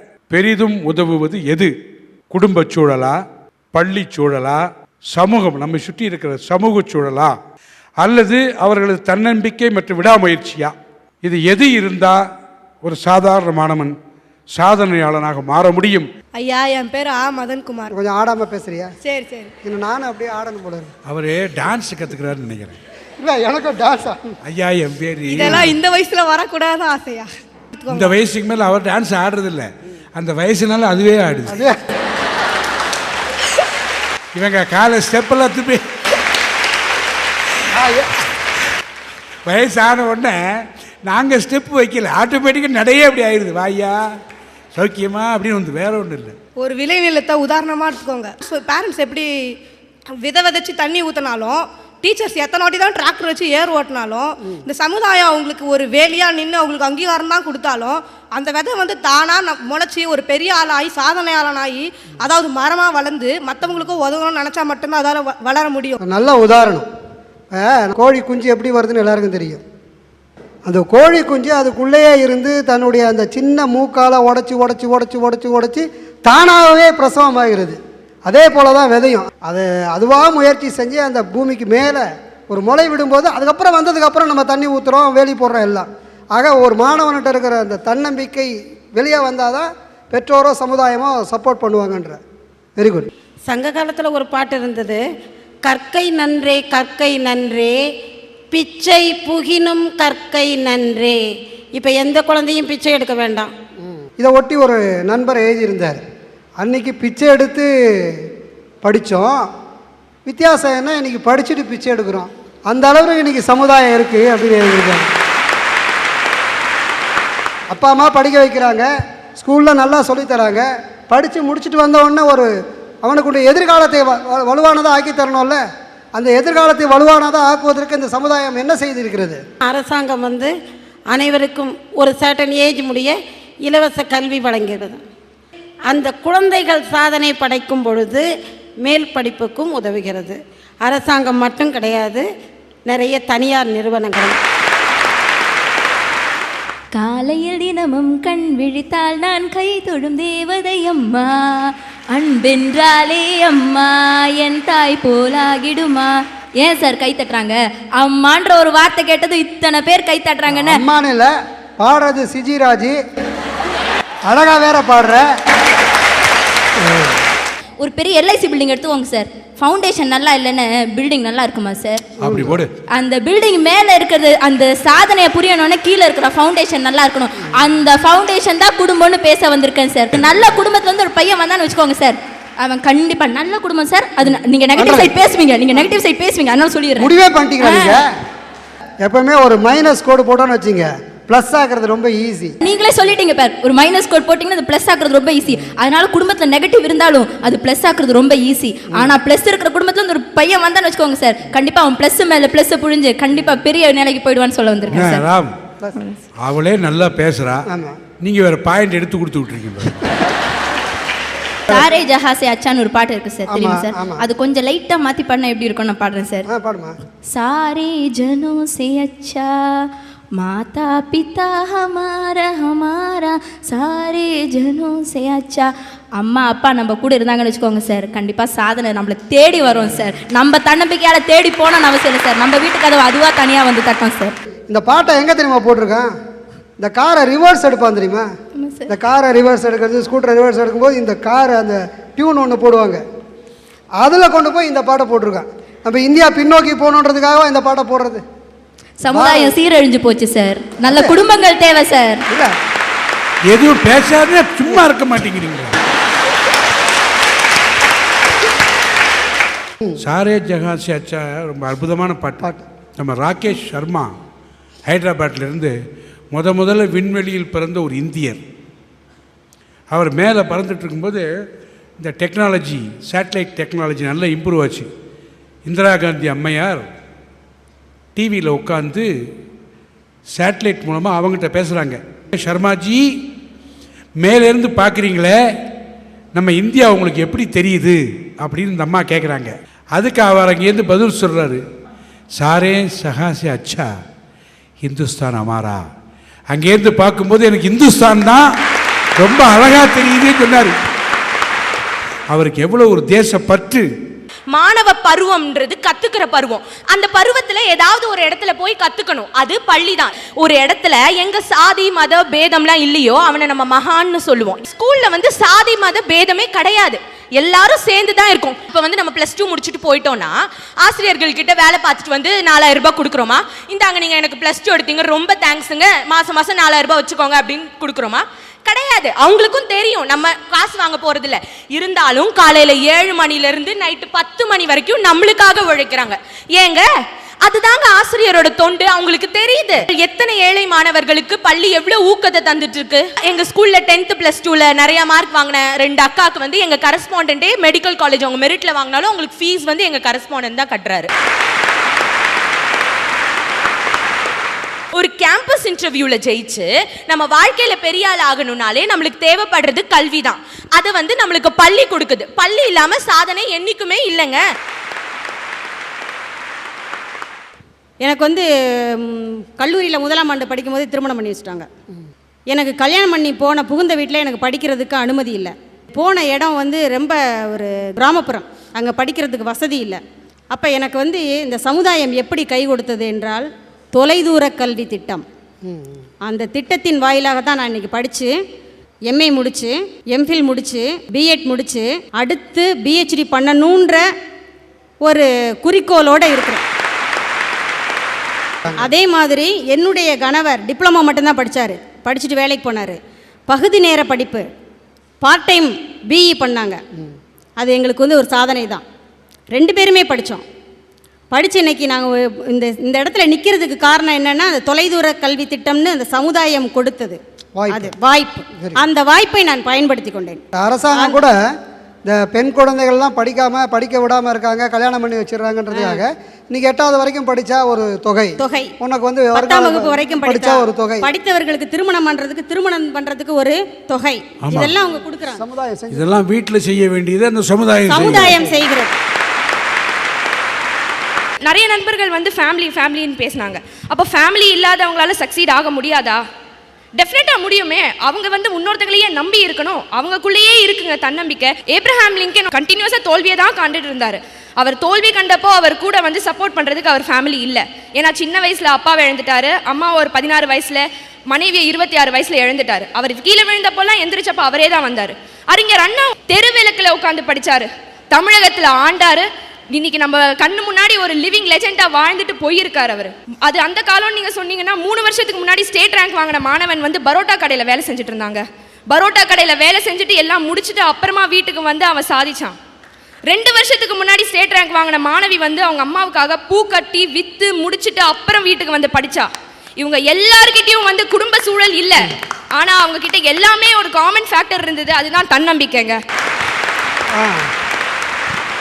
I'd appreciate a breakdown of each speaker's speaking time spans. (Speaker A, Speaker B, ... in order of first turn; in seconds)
Speaker A: 0.3-1.7, 2.3-3.2, 3.7-4.6, 5.1-7.3, 8.0-12.2, 12.8-13.9, 14.5-16.1, 21.1-22.8, 24.4-25.8, 27.9-31.6, 34.3-35.8, 39.5-40.4, 41.0-44.0, 44.7-46.4, 172.2-172.7, 204.9-205.5, 206.4-207.6, 208.2-210.1, 253.5-255.8, 260.0-264.1, 264.9-265.7, 266.3-268.4, 269.9-271.2, 272.0-274.9, 275.6-276.9, 278.1-279.1, 280.3-283.0, 284.2-285.3, 286.3-291.6, 292.4-293.9, 294.8-295.8, 296.5-298.4, 299.2-300.7, 302.3-303.9, 434.4-434.7, 435.9-438.5
Speaker B: 16.4-17.9, 19.0-19.5, 25.3-28.1, 46.6-49.3, 50.2-66.0
Speaker C: 17.9-18.9, 19.6-20.9, 23.2-24.3, 31.5-31.8, 37.7-38.1, 66.0-66.9, 67.5-69.6, 70.7-92.2, 92.8-93.1, 103.8-106.0, 106.6-108.2, 108.8-109.4, 110.2-115.0, 117.7-118.9, 119.4-122.5, 123.0-125.6, 126.1-129.4, 160.5-162.9, 164.3-165.2, 172.2-172.6, 184.7-185.1, 187.0-188.1, 189.0-192.5, 207.7-207.9, 213.5-214.2, 216.4-216.9, 234.7-236.1, 236.8-238.2, 238.9-243.0, 244.0-248.2, 249.1-249.6, 250.8-251.2, 385.6-386.0, 417.6-417.9, 418.5-418.8, 420.5-421.3, 422.1-431.1, 435.3-436.1, 438.2-438.6, 497.1-497.5
Speaker D: 93.5-95.0, 95.7-97.7, 98.5-101.2, 101.8-103.5, 129.6-130.5, 131.1-133.1, 133.7-135.0, 135.9-138.2, 138.8-142.2, 142.9-144.4
Speaker E: 146.9-160.8, 167.8-172.0, 172.9-187.1, 187.6-188.0, 192.6-205.2, 211.7-216.5, 217.3-234.3, 238.6-238.9, 249.0-252.2
Speaker F: 304.5-336.9, 337.4-351.1, 354.9-364.4
Speaker G: 368.0-368.4, 369.0-371.7, 372.5-385.2, 386.2-388.3, 389.1-394.0, 395.0-396.6, 398.8-404.4, 405.2-406.8, 407.6-408.8, 409.5-410.4, 411.3-420.4, 420.9-421.2, 425.7-426.0, 428.4-428.7, 429.3-435.4, 437.9-439.0
Speaker H: 441.4-446.2, 447.0-482.6, 483.3-489.3, 489.8-496.0